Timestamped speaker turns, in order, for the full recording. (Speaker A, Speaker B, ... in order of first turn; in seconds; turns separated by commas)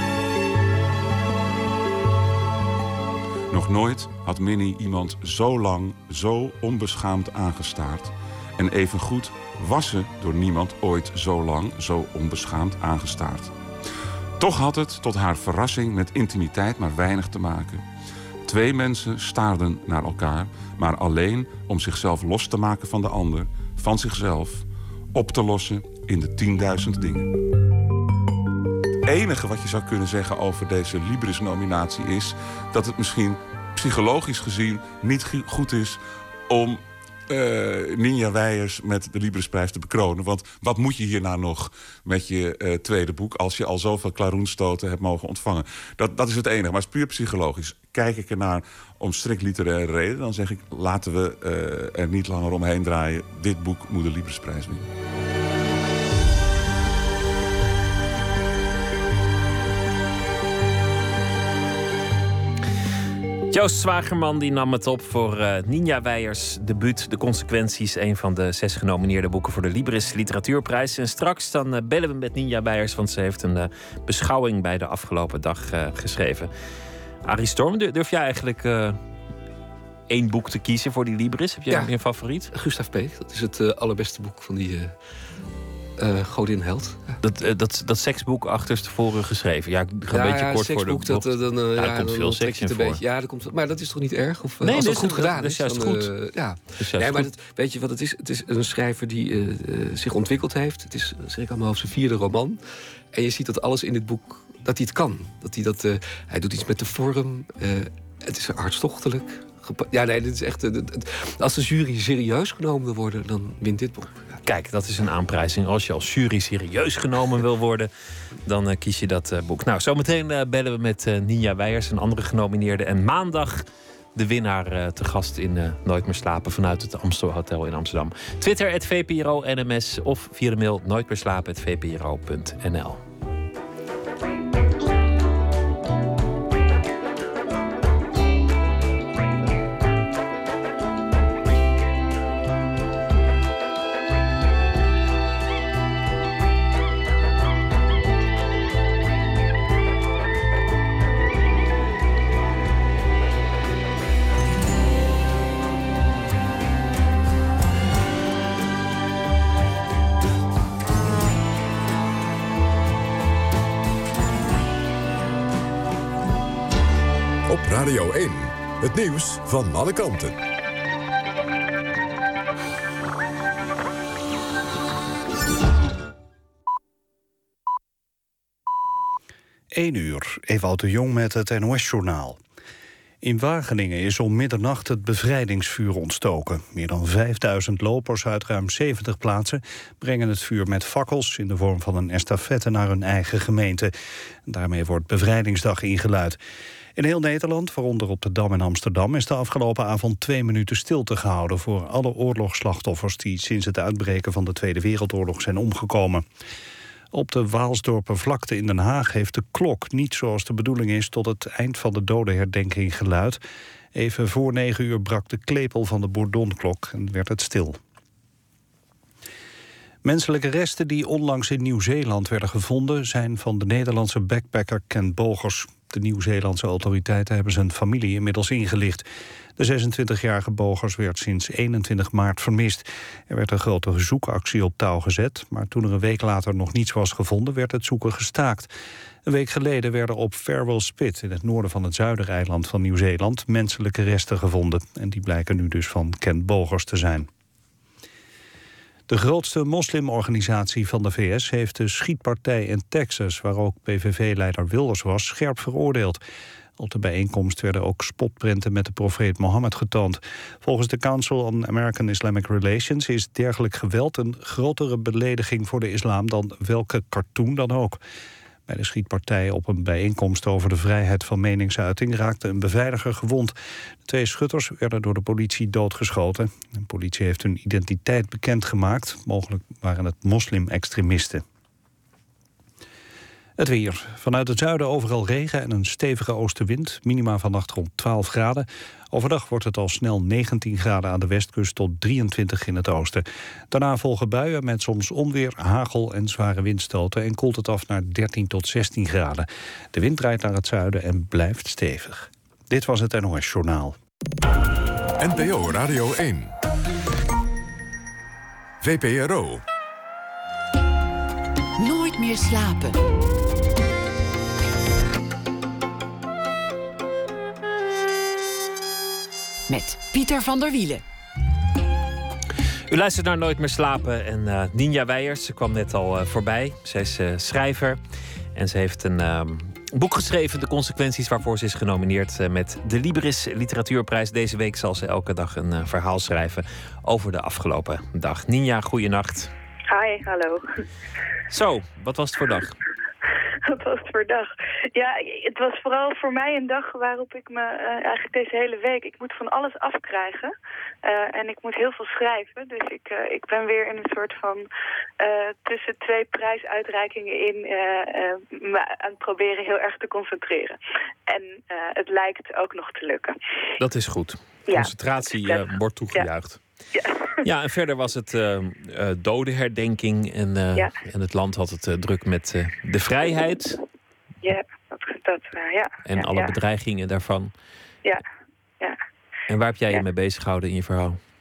Speaker A: 3.5-13.5, Speaker A: 14.4-17.8, Speaker A: 18.4-27.3, Speaker A: 29.1-54.9, Speaker B: 63.5-76.5, Speaker B: 77.2-79.0, Speaker B: 80.1-82.5, Speaker C: 82.5-85.0, Speaker C: 86.0-87.2, Speaker B: 87.2-93.0, Speaker C: 90.1-102.6, Speaker B: 94.6-96.1, Speaker B: 96.8-97.3, Speaker C: 103.1-114.4, Speaker B: 114.4-117.9, Speaker B: 118.5-133.0, Speaker D: 167.5-170.4, Speaker E: 179.7-182.4, Speaker E: 183.2-193.9, Speaker E: 194.5-196.4, Speaker E: 197.0-206.2, Speaker E: 207.1-213.4, Speaker E: 213.9-217.8, Speaker E: 220.0-229.1, Speaker E: 229.6-238.7, Speaker E: 239.3-247.3, Speaker E: 249.1-256.2, Speaker E: 256.8-268.0, Speaker E: 268.7-273.6, Speaker E: 274.1-281.4, Speaker E: 283.6-304.0, Speaker D: 305.2-306.5, Speaker D: 308.8-309.6, Speaker F: 311.8-313.0, Speaker F: 319.7-321.0, Speaker B: 322.9-328.0, Speaker B: 328.6-339.5, Speaker G: 339.9-340.6, Speaker B: 341.5-342.8, Speaker G: 343.6-350.5, Speaker G: 351.0-354.6, Speaker G: 355.2-363.4, Speaker B: 363.8-366.6, Speaker G: 364.7-366.3, Speaker G: 366.9-367.3, Speaker B: 367.4-373.8, Speaker G: 374.4-376.6, Speaker B: 376.1-377.5, Speaker B: 379.5-381.2